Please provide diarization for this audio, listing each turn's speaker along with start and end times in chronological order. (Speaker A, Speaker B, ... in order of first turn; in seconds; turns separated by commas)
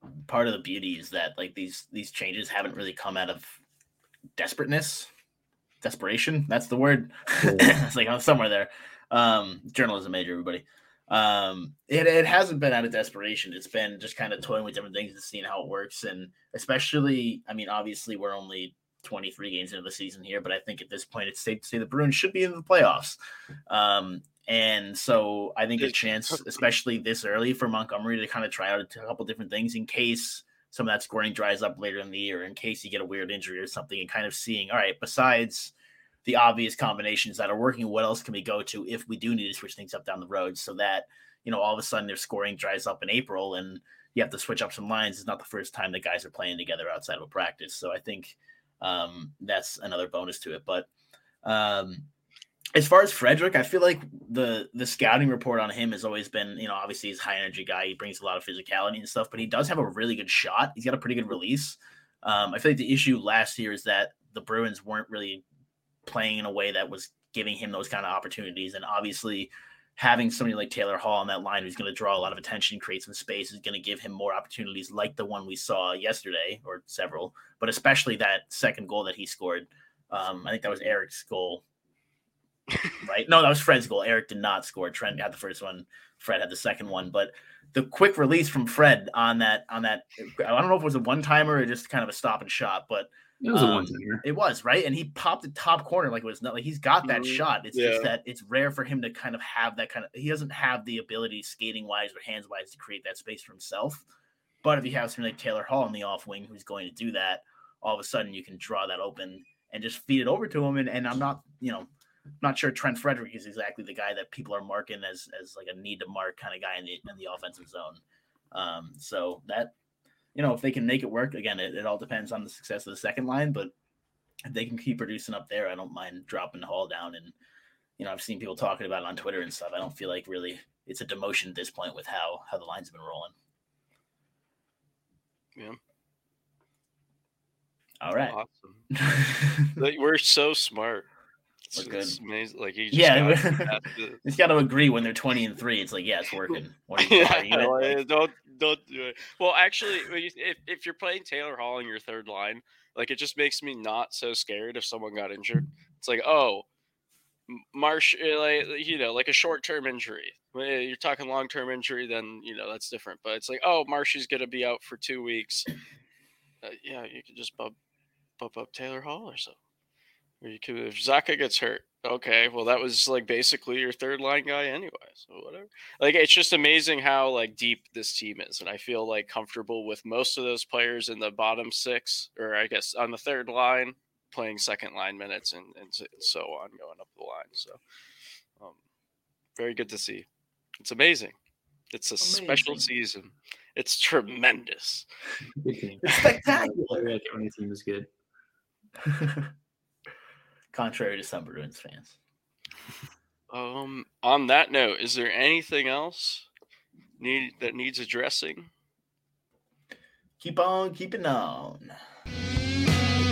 Speaker A: 0.3-3.6, Speaker A: 4.4-5.1, Speaker A: 5.8-23.2, Speaker B: 7.4-7.8, Speaker A: 23.7-35.7, Speaker C: 25.8-26.6, Speaker A: 36.2-50.9, Speaker A: 51.4-52.1, Speaker A: 52.8-65.4, Speaker A: 66.1-81.6, Speaker A: 83.0-104.1, Speaker B: 93.4-94.2, Speaker C: 97.0-98.1, Speaker A: 104.6-111.9, Speaker A: 112.4-118.0, Speaker A: 118.5-119.7, Speaker A: 120.3-123.7, Speaker A: 124.5-127.3, Speaker A: 128.0-133.3, Speaker A: 138.0-138.4, Speaker C: 138.2-138.9, Speaker A: 138.9-139.8, Speaker C: 139.8-141.1, Speaker C: 141.7-144.2, Speaker A: 141.8-142.2, Speaker A: 142.9-148.0, Speaker C: 146.5-156.7, Speaker C: 157.5-165.7, Speaker C: 166.6-167.8, Speaker C: 168.4-169.6, Speaker C: 170.4-187.8, Speaker C: 189.6-190.3, Speaker C: 190.8-191.4, Speaker C: 191.9-195.1, Speaker A: 192.2-192.9, Speaker B: 195.6-198.1, Speaker A: 196.1-197.1, Speaker A: 199.1-199.5, Speaker A: 200.7-202.2, Speaker C: 203.5-206.5, Speaker C: 207.2-208.7, Speaker A: 210.4-212.0